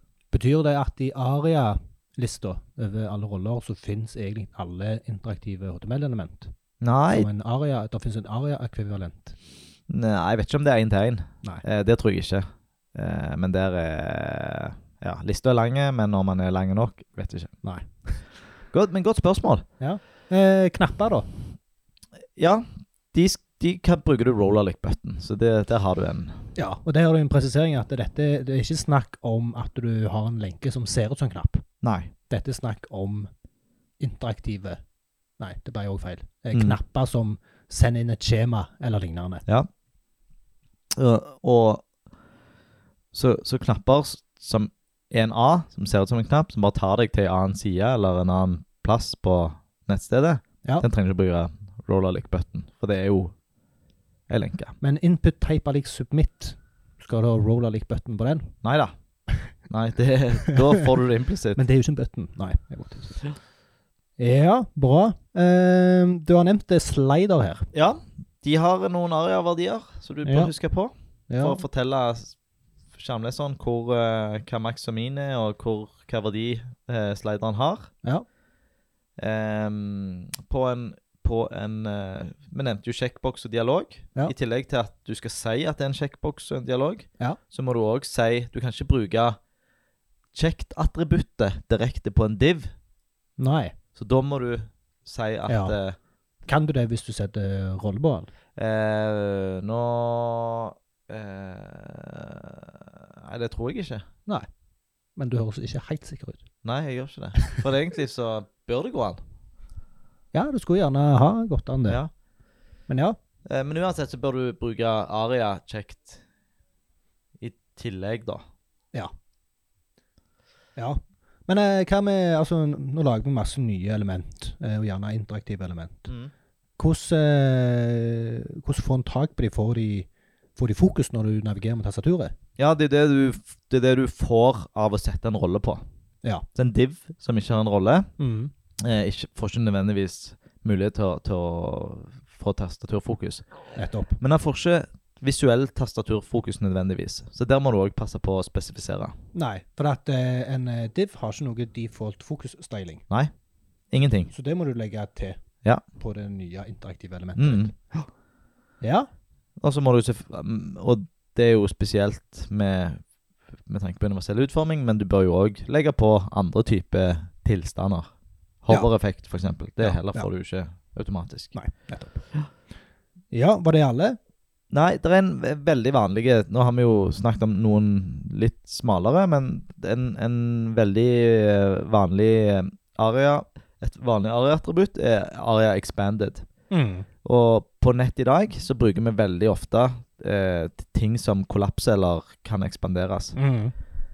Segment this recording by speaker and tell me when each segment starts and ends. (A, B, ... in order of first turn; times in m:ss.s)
0:00.3-0:06.5 A
0:06.8-0:07.3 B
0:07.1-0:09.3 A
0:09.9-0:17.5 B
0:17.6-0:18.2 A
0:18.7-0:19.6 B
0:19.8-0:21.3 A
0:22.4-0:26.4 B
0:26.6-0:31.6 A
0:31.8-0:32.1 B
0:32.3-0:33.3 A
0:34.0-0:34.8 A
0:35.4-0:39.4 A
0:36.5-0:36.8 B
0:40.9-0:41.8 B
0:43.1-0:53.3 B
0:54.3-0:54.7 B
0:54.8-0:58.5 A
0:58.6-0:58.9 B
0:59.7-1:01.6 B
1:00.5-1:00.8 A
1:01.6-1:03.2 A
1:04.2-1:07.7 A
1:07.7-1:12.4 B
1:10.2-1:10.5 A
1:11.3-1:11.6 A
1:12.9-1:17.9 B
1:19.2-1:29.4 B
1:30.3-1:32.7 B
1:33.4-1:33.7 A
1:34.0-1:36.0 B
1:35.5-1:35.7 A
1:36.4-1:38.3 A
1:38.6-1:44.1 B
1:45.2-1:46.4 A
1:46.6-1:49.2 B
1:50.3-1:52.0 A
1:52.9-1:53.2 A
1:53.5-1:56.2 B
1:57.4-1:58.4 B
2:00.8-2:06.1 A
2:06.1-2:06.3 B
2:06.8-2:12.3 A
2:12.6-2:15.8 B
2:16.5-2:18.1 B
2:18.2-2:18.5 A
2:18.8-2:23.4 B
2:23.7-2:24.2 A
2:24.2-2:29.1 B
2:29.3-2:33.0 A
2:33.9-2:34.3 B
2:34.3-2:35.4 A
2:35.9-2:37.7 A
2:37.4-2:38.0 B
2:38.8-2:39.1 A
2:39.6-2:43.0 B
2:43.7-2:48.1 B
2:48.6-2:51.5 B
2:49.8-2:50.3 A
2:51.5-2:52.2 A
2:53.3-2:54.2 A
2:54.7-3:06.4 B
3:06.7-3:07.1 A
3:07.2-3:13.4 B
3:13.4-3:13.7 A